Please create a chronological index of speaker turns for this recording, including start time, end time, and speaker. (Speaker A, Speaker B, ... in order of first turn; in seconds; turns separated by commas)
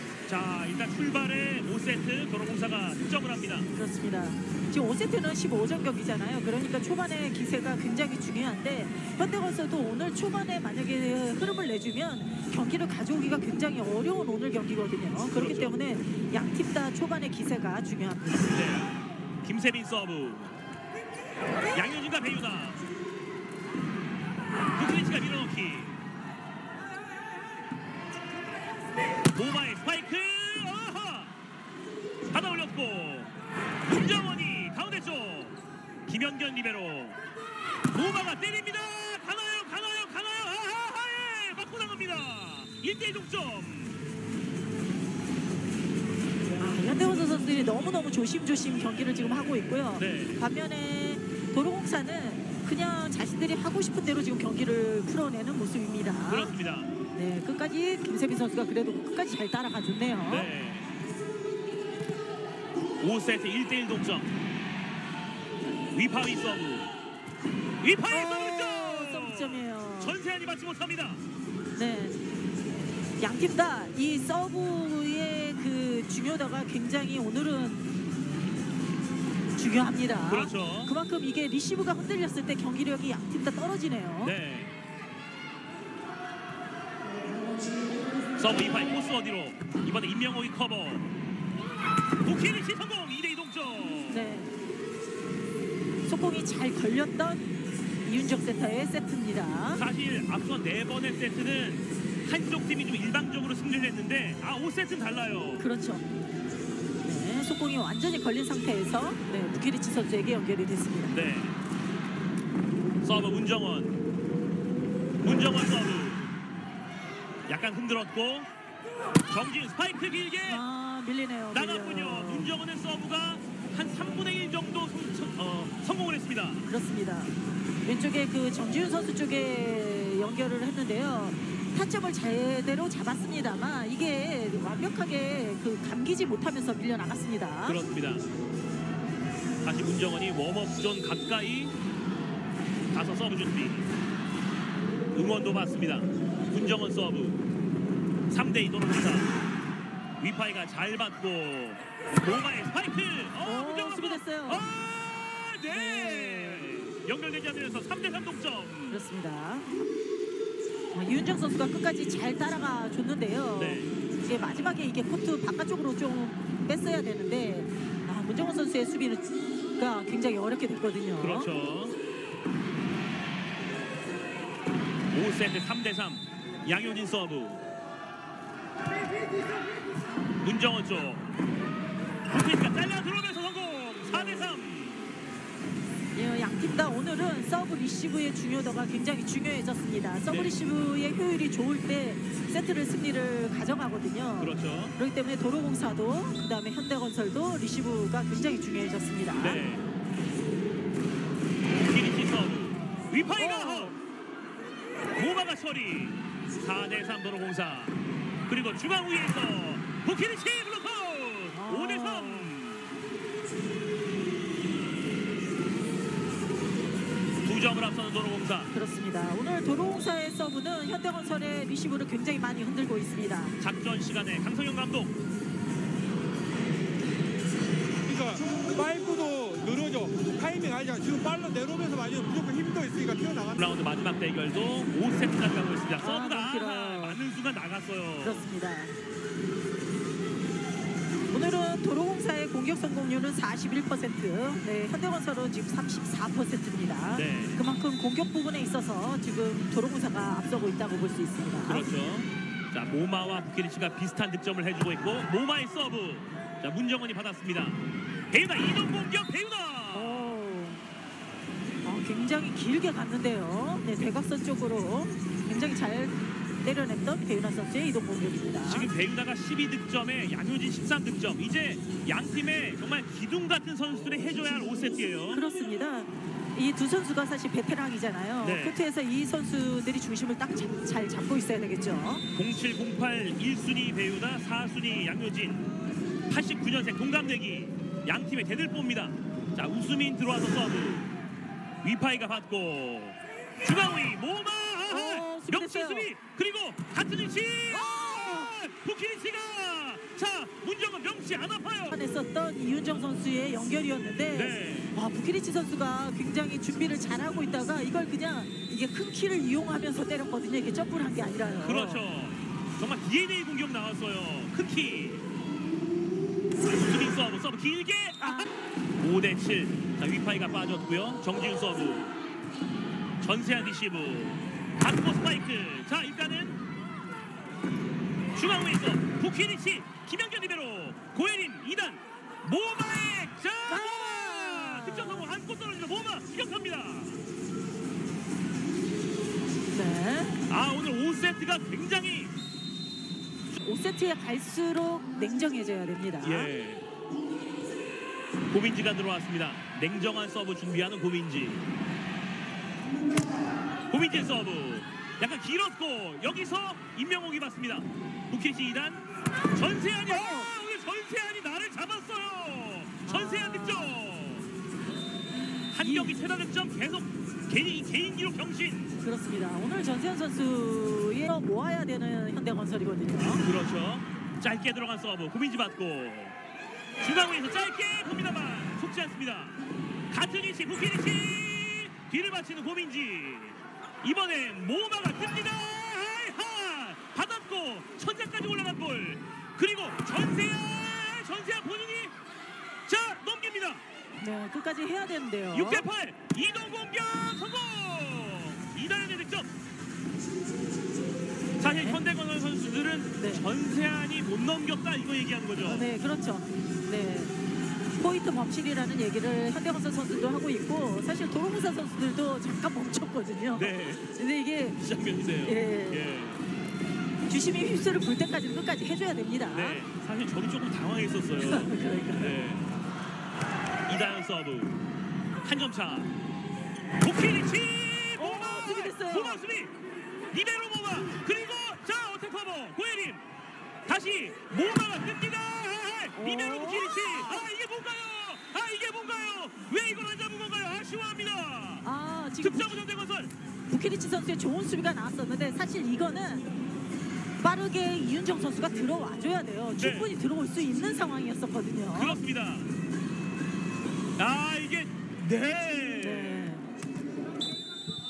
Speaker A: 0.3-3.7, Speaker B: 3.7-18.6, Speaker A: 15.3-15.8, Speaker A: 18.5-20.6, Speaker A: 21.7-22.9, Speaker A: 24.7-26.0, Speaker A: 29.3-31.4, Speaker A: 32.3-33.3, Speaker A: 33.9-37.2, Speaker A: 37.9-44.0, Speaker B: 46.6-56.5, Speaker A: 50.0-50.5, Speaker A: 56.3-56.9, Speaker B: 57.1-60.5, Speaker A: 60.3-60.9, Speaker A: 63.0-64.3, Speaker A: 65.9-66.9, Speaker A: 67.8-71.2, Speaker B: 68.1-70.2, Speaker B: 71.8-72.2, Speaker B: 73.2-77.9, Speaker B: 79.6-84.4, Speaker A: 80.3-80.9, Speaker A: 84.2-84.7, Speaker A: 88.4-91.2, Speaker A: 92.2-94.3, Speaker B: 94.1-94.5, Speaker B: 96.1-97.5, Speaker B: 98.0-99.8, Speaker A: 99.8-105.7, Speaker B: 105.6-106.0, Speaker B: 107.0-111.2, Speaker A: 111.1-111.6, Speaker A: 113.0-114.0, Speaker A: 115.2-116.3, Speaker A: 117.5-118.5, Speaker A: 119.3-120.6, Speaker B: 120.5-122.5, Speaker A: 121.5-126.7, Speaker B: 126.7-127.3, Speaker B: 127.8-137.8, Speaker A: 137.7-138.3, Speaker A: 139.6-141.8, Speaker A: 142.9-143.9, Speaker A: 145.1-147.4, Speaker A: 148.3-149.3, Speaker A: 150.2-159.0, Speaker B: 153.4-154.7, Speaker B: 155.7-156.7, Speaker B: 158.9-159.8, Speaker B: 160.9-171.5, Speaker A: 163.6-163.9, Speaker A: 171.2-171.9, Speaker A: 175.1-177.6, Speaker A: 180.4-181.3, Speaker A: 182.3-185.1, Speaker B: 184.1-184.6, Speaker B: 186.2-199.6, Speaker A: 190.3-190.6, Speaker A: 194.4-195.0, Speaker A: 199.3-199.9, Speaker A: 201.8-204.0, Speaker B: 203.4-204.0, Speaker A: 205.1-212.9, Speaker B: 211.5-212.6, Speaker A: 217.4-218.7, Speaker B: 218.7-223.6, Speaker A: 223.6-225.2, Speaker C: 228.1-233.6, Speaker A: 233.6-238.5, Speaker B: 236.0-237.2, Speaker B: 238.2-238.9, Speaker B: 241.3-251.9, Speaker A: 247.1-247.6, Speaker A: 251.7-260.4, Speaker B: 259.9-260.9, Speaker B: 261.8-268.9, Speaker A: 268.7-275.4, Speaker B: 275.3-282.2, Speaker A: 278.4-278.8, Speaker A: 282.4-285.7, Speaker A: 286.3-291.1, Speaker A: 291.8-302.0, Speaker B: 294.9-296.1, Speaker B: 301.9-312.0, Speaker A: 304.3-304.9, Speaker A: 311.6-315.3, Speaker A: 316.8-322.2, Speaker B: 318.2-318.5, Speaker A: 323.2-326.6, Speaker A: 328.4-337.2, Speaker B: 333.7-335.3, Speaker B: 339.7-340.4, Speaker A: 340.5-342.4, Speaker B: 343.6-346.5, Speaker A: 346.2-346.9, Speaker A: 348.5-351.6, Speaker A: 353.9-364.5, Speaker B: 360.1-360.5, Speaker B: 363.1-363.9, Speaker B: 365.6-366.2, Speaker A: 365.7-368.9, Speaker B: 369.0-373.5, Speaker A: 373.4-376.4, Speaker A: 377.0-392.1, Speaker A: 392.9-393.8, Speaker B: 394.2-395.9, Speaker A: 395.5-399.5, Speaker A: 401.6-405.9, Speaker B: 401.6-402.0, Speaker B: 403.2-403.5, Speaker B: 405.6-407.3, Speaker B: 407.9-414.8, Speaker A: 413.5-414.1, Speaker A: 414.8-416.4, Speaker B: 415.4-416.1, Speaker B: 417.3-419.8, Speaker A: 419.5-422.8, Speaker B: 421.4-422.4, Speaker A: 423.9-424.8, Speaker A: 425.4-426.1, Speaker A: 427.0-429.7, Speaker B: 428.2-429.4, Speaker A: 430.3-433.2, Speaker A: 433.9-441.9, Speaker B: 436.1-437.5, Speaker B: 441.8-442.8, Speaker A: 442.4-443.3, Speaker B: 443.7-446.5, Speaker B: 447.4-452.2, Speaker A: 449.8-450.1, Speaker A: 451.9-452.7, Speaker A: 454.2-456.6, Speaker B: 456.0-456.7